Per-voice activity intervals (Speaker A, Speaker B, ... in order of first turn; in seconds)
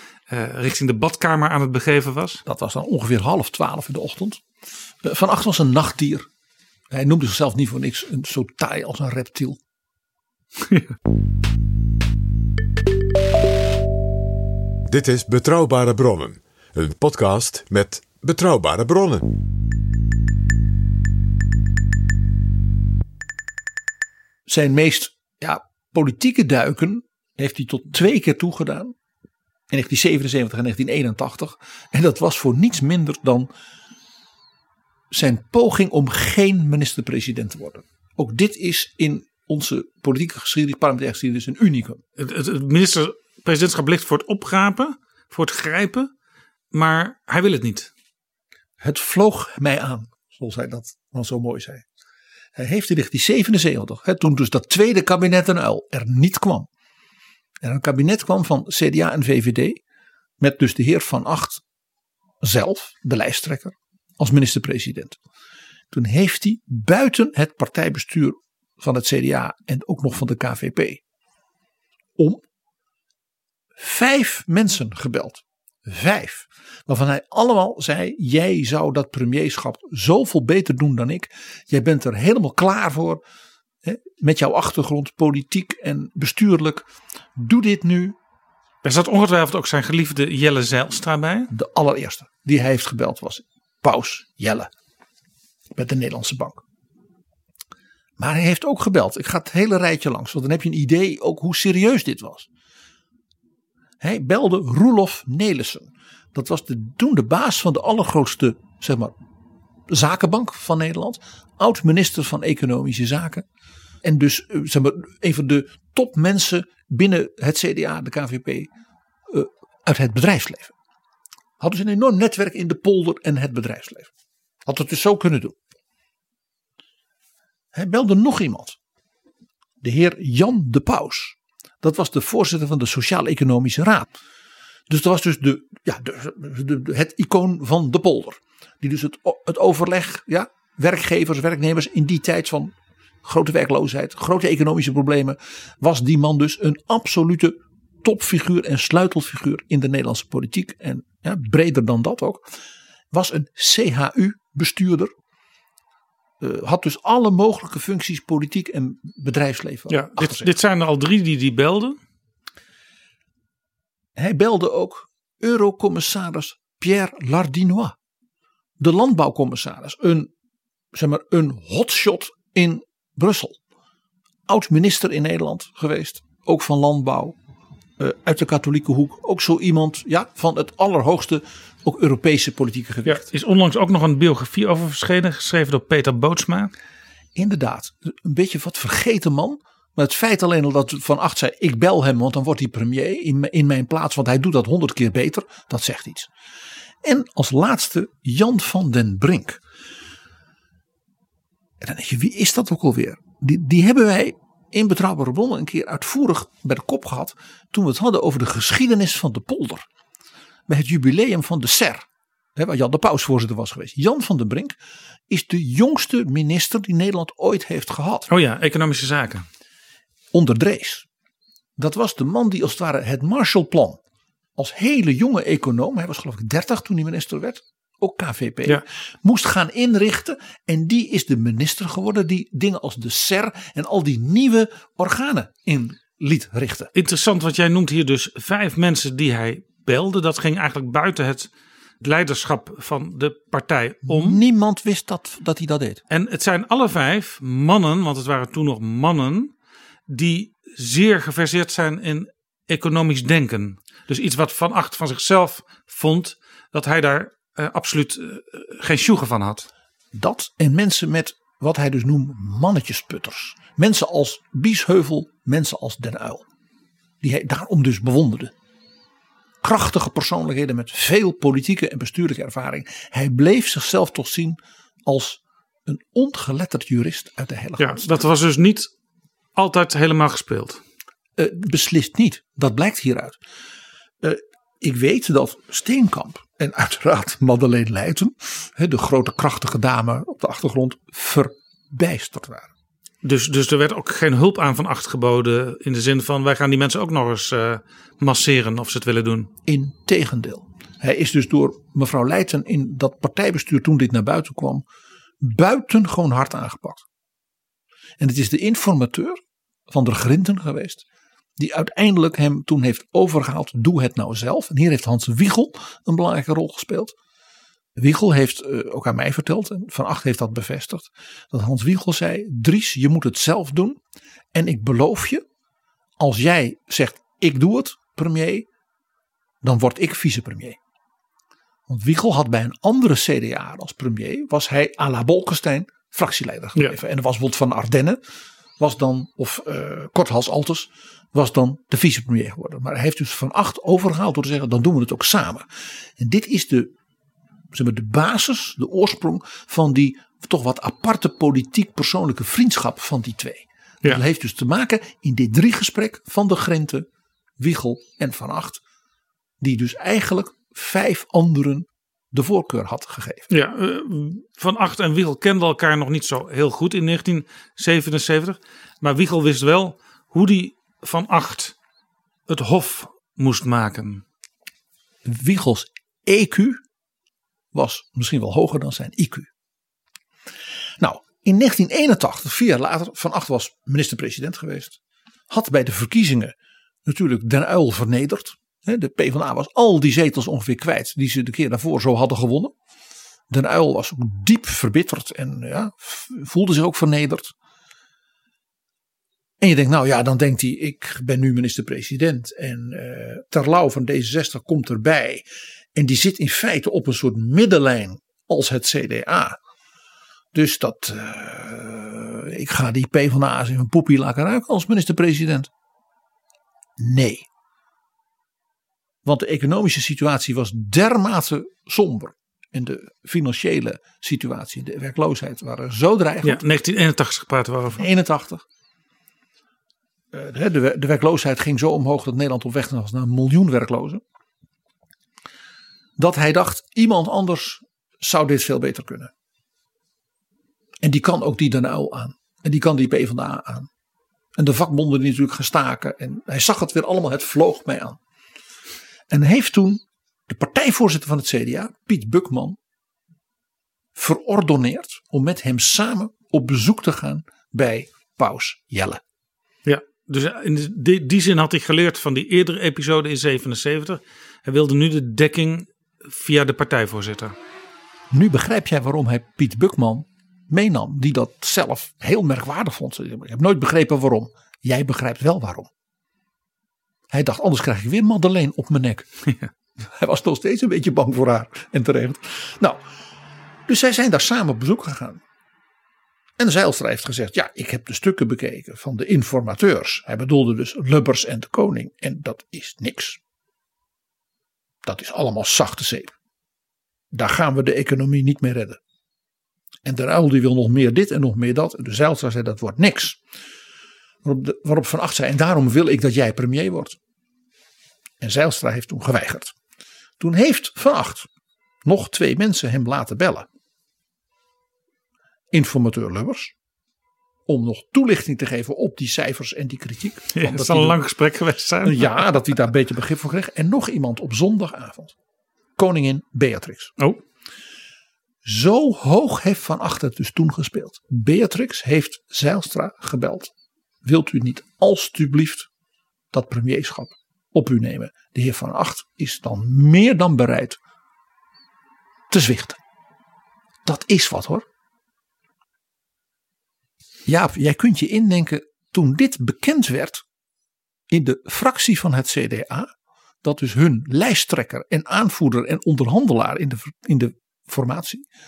Speaker A: 0.3-2.4, 42.2-46.1, 46.7-47.9, 88.8-91.5, 159.9-162.0, 183.1-186.7, 218.3-219.5, 236.9-241.5, 242.0-244.4, 246.1-249.5, 250.1-259.7, 277.8-278.9, 279.6-280.8, 293.2-299.5, 363.5-371.8, 372.5-374.2, 426.4-428.1, 459.9-467.5, 520.6-522.4
Speaker B: 2.5-4.4, 5.0-6.3, 6.9-9.6, 24.5-28.9, 29.7-33.5, 35.1-42.0, 48.8-51.8, 52.6-56.7, 57.6-59.8, 60.4-61.6, 62.4-65.2, 65.9-71.0, 72.2-72.4, 73.8-83.2, 83.8-88.2, 91.5-94.7, 95.7-96.6, 98.2-102.5, 104.0-109.1, 109.9-113.5, 114.0-118.7, 119.3-120.7, 121.6-124.1, 124.7-125.6, 127.7-128.8, 129.8-134.1, 134.9-152.5, 153.1-155.1, 156.4-160.5, 164.2-168.0, 168.8-170.3, 170.9-173.6, 174.5-177.4, 178.0-183.2, 187.3-196.3, 197.0-199.6, 201.8-209.9, 210.7-214.8, 215.3-218.3, 220.3-221.1, 221.8-224.0, 224.6-236.9, 244.1-246.0, 260.1-266.4, 267.2-268.5, 269.6-278.2, 281.4-283.4, 284.2-292.7, 299.7-304.9, 305.4-307.0, 308.2-311.0, 311.6-317.1, 318.0-324.0, 324.5-325.4, 326.2-328.7, 329.6-330.8, 331.9-338.2, 338.8-345.7, 346.2-346.9, 347.7-357.1, 357.6-358.8, 359.6-363.5, 375.2-376.8, 377.7-379.5, 381.0-385.0, 385.5-386.5, 387.1-392.7, 393.5-397.5, 399.6-409.6, 410.5-415.7, 417.0-417.5, 419.2-426.6, 428.0-428.6, 430.3-434.2, 436.2-439.3, 441.0-443.9, 444.6-448.2, 449.3-452.8, 454.1-459.2, 468.3-475.9, 477.3-479.3, 480.0-483.0, 483.9-485.4, 486.6-493.4, 495.0-496.4, 497.3-499.0, 500.1-503.4, 504.4-507.2, 508.4-509.8, 510.4-511.5, 512.0-513.7, 515.7-516.7, 517.7-521.2, 522.0-525.3, 526.0-527.1, 528.6-533.7, 534.2-535.9, 536.5-541.0, 542.5-543.0, 544.0-544.9, 547.5-550.5, 551.3-553.1, 553.6-558.5
Speaker C: 14.9-19.3